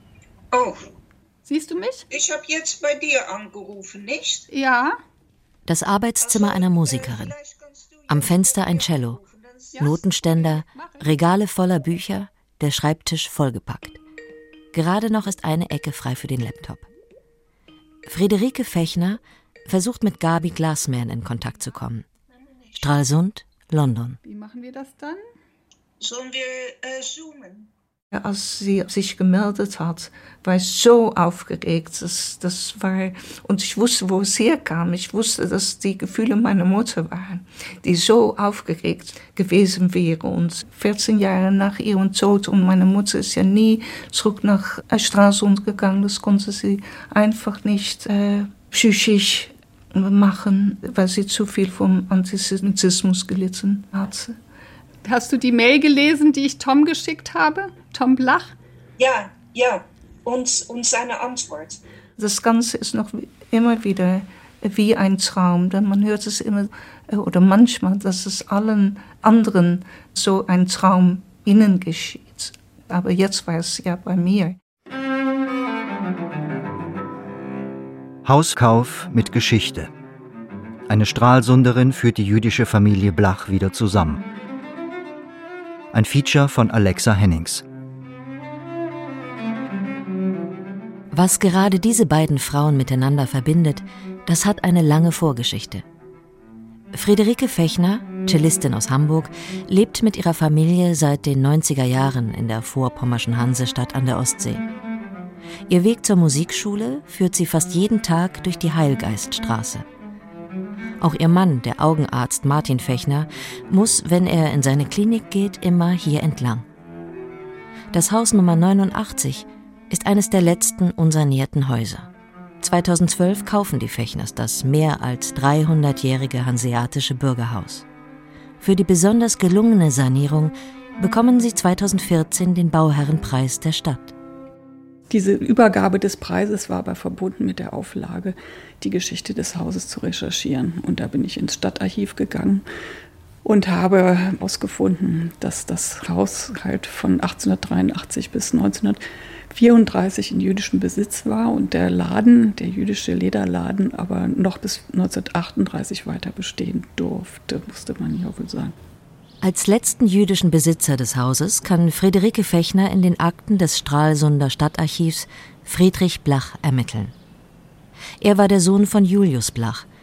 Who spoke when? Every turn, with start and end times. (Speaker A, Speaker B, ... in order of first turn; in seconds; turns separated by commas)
Speaker A: 0.5-0.8, Speaker B: 1.5-2.1, Speaker A: 2.1-4.5, Speaker B: 4.5-5.0, Speaker C: 5.7-7.3, Speaker A: 6.2-10.0, Speaker C: 8.1-9.2, Speaker C: 9.8-14.0, Speaker B: 10.7-11.1, Speaker C: 14.7-16.9, Speaker C: 18.1-22.1, Speaker C: 22.8-24.2, Speaker B: 24.2-25.2, Speaker A: 26.0-27.7, Speaker D: 28.1-54.4, Speaker B: 55.0-58.5, Speaker A: 59.0-61.8, Speaker D: 62.2-74.6, Speaker E: 78.2-79.9, Speaker E: 80.9-84.2, Speaker E: 85.9-87.6, Speaker C: 91.1-95.8, Speaker C: 96.9-104.6, Speaker C: 105.7-109.8, Speaker C: 111.0-116.6, Speaker C: 117.9-122.1, Speaker C: 122.6-127.8, Speaker C: 128.6-134.1, Speaker B: 135.1-142.6, Speaker B: 143.4-158.8, Speaker C: 159.4-167.1, Speaker C: 168.2-169.8